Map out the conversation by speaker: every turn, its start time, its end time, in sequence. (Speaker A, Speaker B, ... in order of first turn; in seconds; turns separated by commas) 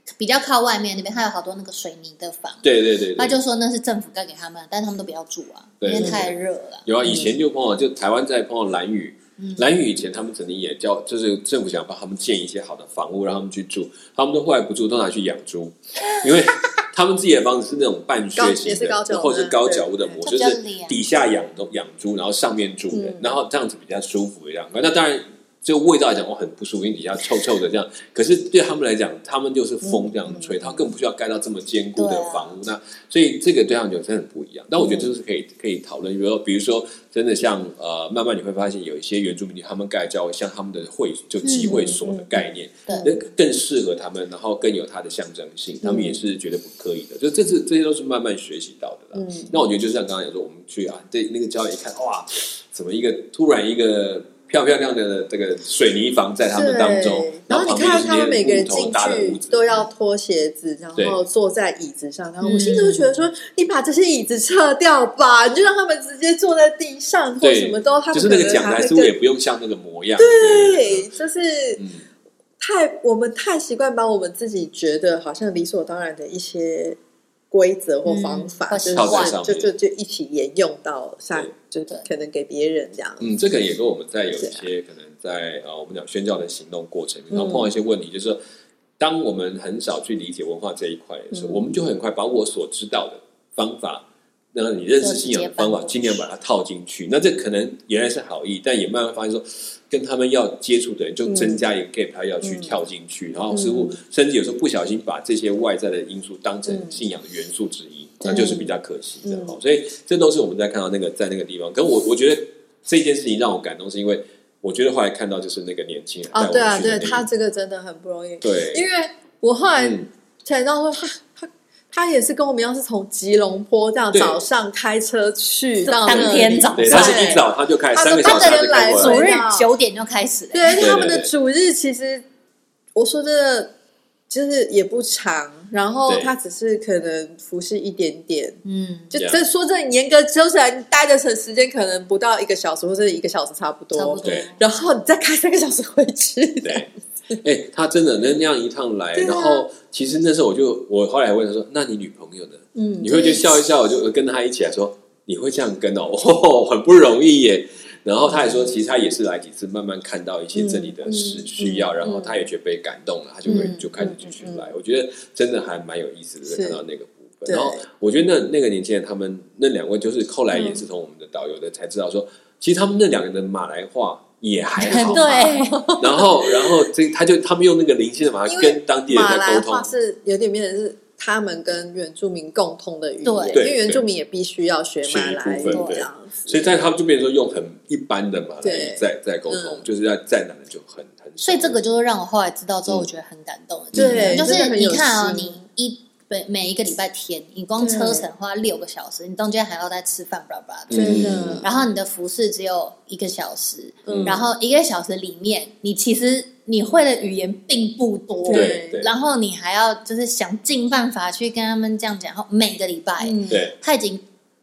Speaker A: 0.2-6.9, Speaker B: 2.6-3.4, Speaker B: 5.8-59.9, Speaker C: 5.9-6.2, Speaker C: 7.0-7.3, Speaker A: 9.4-9.7, Speaker C: 18.4-20.2, Speaker A: 20.3-21.0, Speaker C: 22.9-23.3, Speaker C: 29.9-30.5, Speaker A: 32.0-32.6, Speaker C: 34.8-35.1, Speaker A: 41.4-41.9, Speaker C: 41.6-43.1, Speaker C: 45.8-46.2, Speaker C: 49.1-49.5, Speaker C: 56.5-69.2, Speaker A: 62.4-63.2, Speaker B: 67.4-71.1, Speaker C: 70.2-71.8, Speaker B: 71.8-72.0, Speaker C: 72.6-77.0, Speaker C: 77.5-83.3, Speaker A: 78.1-79.4, Speaker B: 78.9-79.7, Speaker B: 83.2-88.4, Speaker C: 84.4-84.7, Speaker C: 87.3-87.7, Speaker B: 89.0-117.2, Speaker C: 91.3-91.6, Speaker A: 95.0-96.2, Speaker C: 101.3-101.6, Speaker C: 102.4-102.7, Speaker C: 103.5-104.0, Speaker C: 106.7-107.0, Speaker C: 108.2-108.7, Speaker C: 109.2-109.6, Speaker C: 116.3-129.7, Speaker B: 118.4-118.8, Speaker B: 119.8-120.1, Speaker B: 124.1-124.4, Speaker A: 125.8-127.4, Speaker B: 126.1-129.3, Speaker A: 128.1-130.9, Speaker C: 130.5-132.2, Speaker B: 130.7-131.3, Speaker C: 132.9-133.7, Speaker C: 134.3-138.6, Speaker B: 136.1-136.3, Speaker A: 138.7-139.1, Speaker C: 139.1-146.8, Speaker B: 139.2-139.4, Speaker A: 143.9-144.6, Speaker B: 146.6-146.9, Speaker B: 147.4-179.9, Speaker C: 149.2-149.7, Speaker C: 152.8-153.5, Speaker C: 160.6-162.4, Speaker C: 163.5-164.7, Speaker C: 166.5-166.8, Speaker C: 167.5-167.8, Speaker C: 170.5-170.8, Speaker A: 174.8-175.8, Speaker C: 174.9-176.9, Speaker C: 178.5-186.8, Speaker A: 183.2-183.7, Speaker B: 183.5-184.0, Speaker B: 185.0-191.8, Speaker A: 185.7-186.0, Speaker C: 188.6-189.9, Speaker A: 191.4-214.2, Speaker B: 193.9-194.4, Speaker C: 193.9-195.6, Speaker C: 197.8-198.3, Speaker B: 200.9-201.7, Speaker C: 200.9-201.7, Speaker C: 204.1-204.4, Speaker B: 204.1-204.4, Speaker C: 208.4-209.0, Speaker B: 208.5-209.1, Speaker C: 213.2-213.6, Speaker B: 213.5-213.8